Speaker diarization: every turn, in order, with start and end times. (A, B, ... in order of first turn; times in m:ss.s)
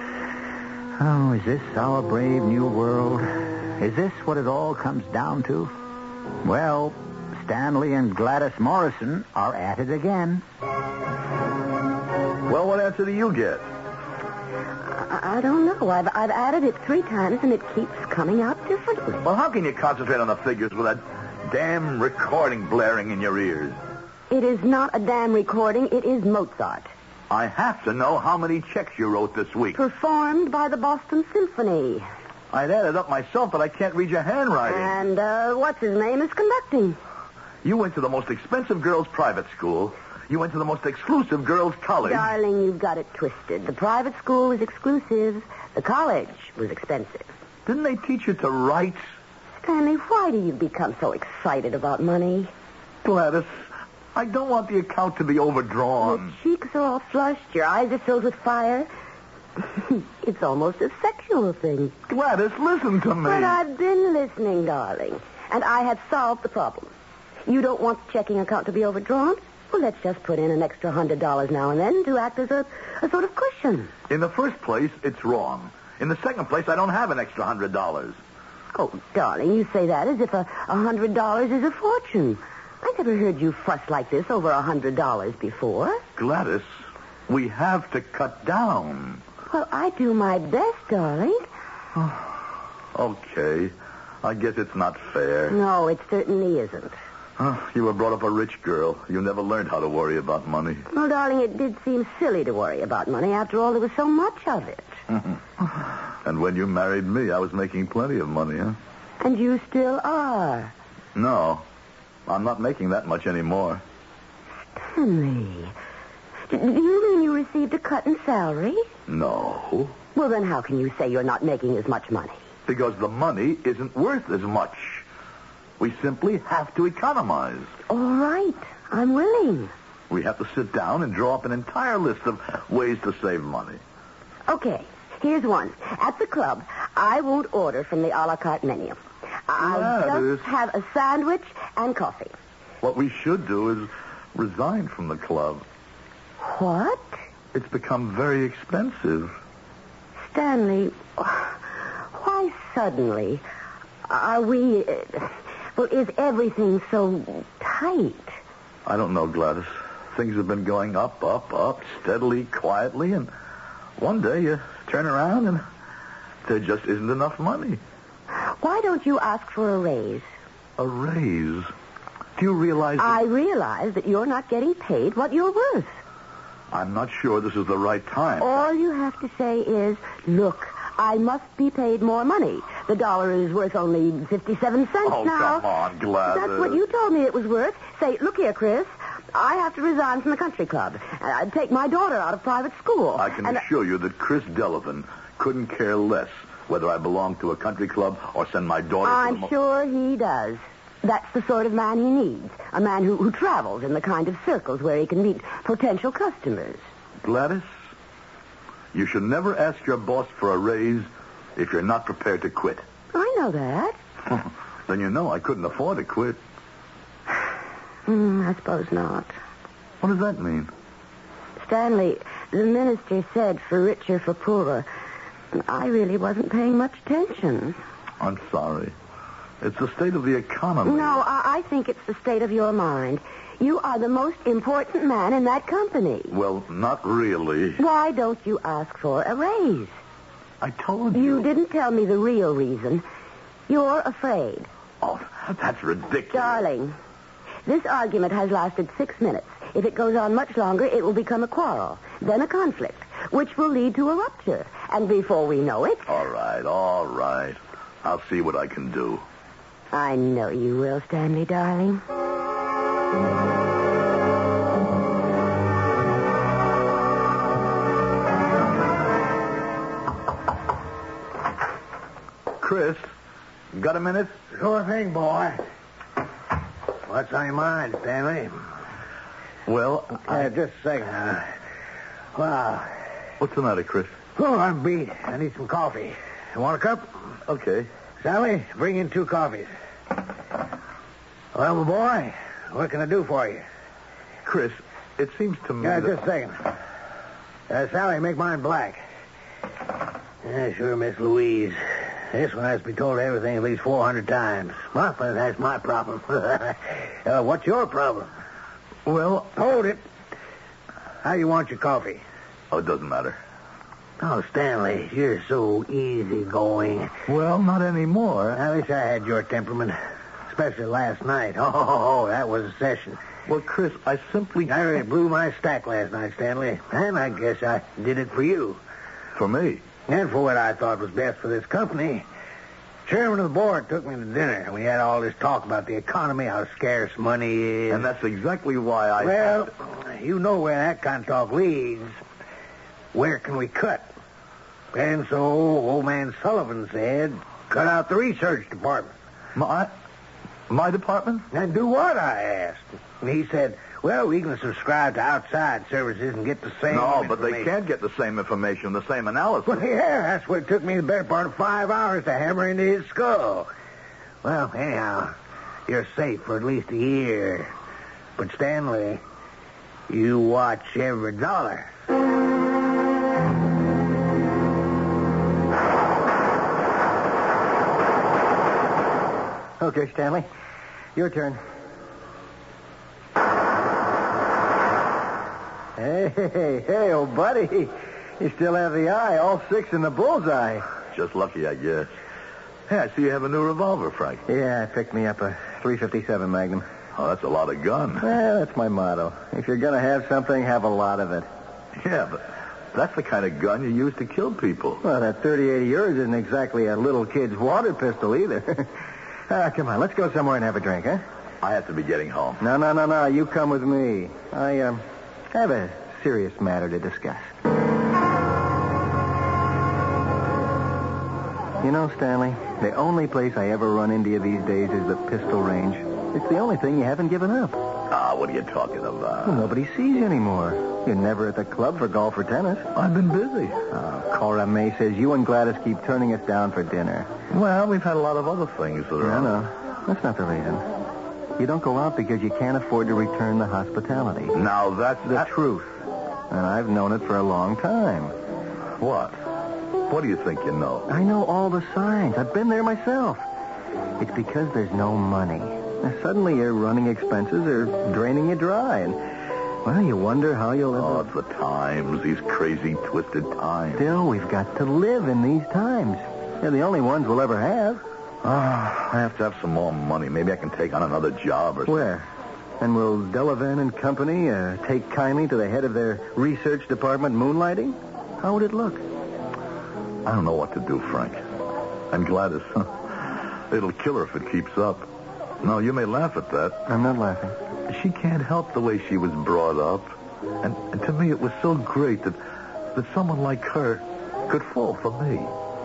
0:01.0-0:05.7 A
0:06.4-0:10.4 A
0:12.5-0:13.6 B
0:14.8-0:19.2 C
0:19.2-0:23.8 B
0:24.3-0:26.9 C
0:27.3-0:29.8 B
0:29.7-0:32.1 C
0:32.5-0:34.9 B
0:34.6-0:37.0 C
0:37.6-0:42.3 B
0:42.0-0:47.3 C
0:47.6-0:49.1 B
0:49.6-0:52.5 C
0:53.0-0:56.3 B
0:56.0-0:58.9 C
0:59.6-1:01.9 C
1:02.1-1:03.6 B
1:03.2-1:06.9 C
1:07.4-1:13.9 C
1:14.1-1:18.2 B
1:18.7-1:26.0 C
1:26.2-1:29.2 B
1:29.5-1:31.5 C
1:32.9-1:35.6 B
1:35.5-1:37.0 C
1:37.4-1:40.9 B
1:40.9-1:45.0 C
1:46.2-1:48.8 B
1:49.2-1:50.7 C
1:51.1-1:51.6 B
1:52.3-1:53.8 B
1:54.7-1:55.7 C
1:56.5-1:58.9 C
1:59.1-1:59.9 B
2:00.1-2:02.4 C
2:02.7-2:05.0 B
2:05.8-2:07.7 B
2:07.9-2:09.7 C
2:10.1-2:13.8 B
2:14.5-2:22.3 C
2:19.6-2:20.4 B
2:22.8-2:25.6 B
2:26.4-2:27.2 C
2:27.5-2:29.4 B
2:30.2-2:31.6 C
2:32.1-2:33.4 C
2:34.1-2:38.4 C
2:38.8-2:43.3 B
2:44.0-2:45.6 B
2:46.4-2:47.8 B
2:48.3-2:50.3 C
2:50.8-2:51.7 B
2:52.4-2:53.2 B
2:53.0-2:56.0 C
2:56.7-2:58.7 B
2:58.4-3:05.7 C
3:05.0-3:06.8 B
3:06.2-3:13.6 C
3:13.2-3:19.5 B
3:19.0-3:26.8 C
3:27.2-3:27.7 B
3:28.9-3:32.8 B
3:33.1-3:34.0 C
3:34.9-3:36.4 B
3:38.1-3:39.4 C
3:40.0-3:40.7 B
3:41.6-3:44.9 C
3:45.5-3:47.8 C
3:48.2-3:48.9 B
3:49.6-3:51.2 B
3:50.8-3:56.3 C
3:56.3-3:57.8 B
3:57.8-4:00.0 C
4:00.6-4:01.5 B
4:01.1-4:03.0 C
4:03.7-4:04.7 C
4:05.0-4:06.6 B
4:06.3-4:07.0 C
4:07.6-4:16.1 C
4:16.1-4:19.2 B
4:19.9-4:22.0 C
4:32.6-4:33.1 B
4:33.7-4:34.4 B
4:34.5-4:35.6 D
4:37.1-4:38.6 D
4:39.6-4:40.5 B
4:40.2-4:41.5 D
4:42.3-4:42.9 D
4:43.4-4:44.2 B
4:44.3-4:47.2 D
4:47.4-4:47.9 B
4:48.2-4:49.7 D
4:51.5-4:53.6 D
4:54.4-4:56.2 B
4:55.8-4:56.6 D
4:57.7-4:59.0 D
5:00.4-5:08.3 D
5:09.0-5:09.5 B
5:09.5-5:10.0 D
5:11.2-5:12.2 D
5:12.7-5:13.4 B
5:14.2-5:17.1 D
5:17.3-5:18.6 B
5:18.5-5:23.2 D
5:23.5-5:24.7 B
5:24.6-5:28.8 D
5:29.3-5:29.8 B
5:30.1-5:32.3 D
5:33.0-5:38.1 D
5:37.9-5:39.7 B
5:39.2-5:42.2 D
5:43.1-5:44.1 D
5:44.9-5:49.1 D
5:49.5-5:49.9 B
5:50.7-5:51.5 B
5:51.5-5:57.7 D
5:56.9-5:59.9 B
5:59.6-6:03.7 D
6:04.4-6:05.4 D
6:05.9-6:07.7 D
6:08.4-6:09.2 D
6:10.1-6:11.9 D
6:19.8-6:20.4 E
6:21.1-6:21.6 E
6:26.0-6:30.8 E
6:31.1-6:32.1 B
6:32.9-6:34.4 B
6:34.5-6:36.8 E
6:37.1-6:38.3 B
6:38.2-6:41.5 E
6:42.0-6:45.0 B
6:45.0-6:48.9 E
6:49.5-6:51.2 E
6:51.6-6:52.6 B
6:52.6-6:57.5 E
7:01.8-7:07.8 E
7:08.1-7:09.7 B
7:09.4-7:12.9 E
7:12.9-7:13.8 B
7:13.9-7:17.3 E
7:17.5-7:19.5 B
7:19.2-7:20.8 E
7:21.6-7:24.6 E
7:24.5-7:25.5 B
7:25.3-7:25.9 E
7:26.5-7:28.3 E
7:29.0-7:29.4 B
7:30.1-7:31.1 B
7:31.1-7:33.4 E
7:34.2-7:39.2 E
7:39.8-7:41.3 E
7:40.9-7:44.1 B
7:44.0-7:48.0 E
7:48.4-7:52.0 B
7:51.9-7:52.3 E
7:52.8-7:59.0 E
8:00.2-8:01.4 B
8:02.1-8:05.1 B
8:05.6-8:06.8 B
8:06.9-8:07.6 E
8:07.9-8:12.4 B
8:12.9-8:15.5 B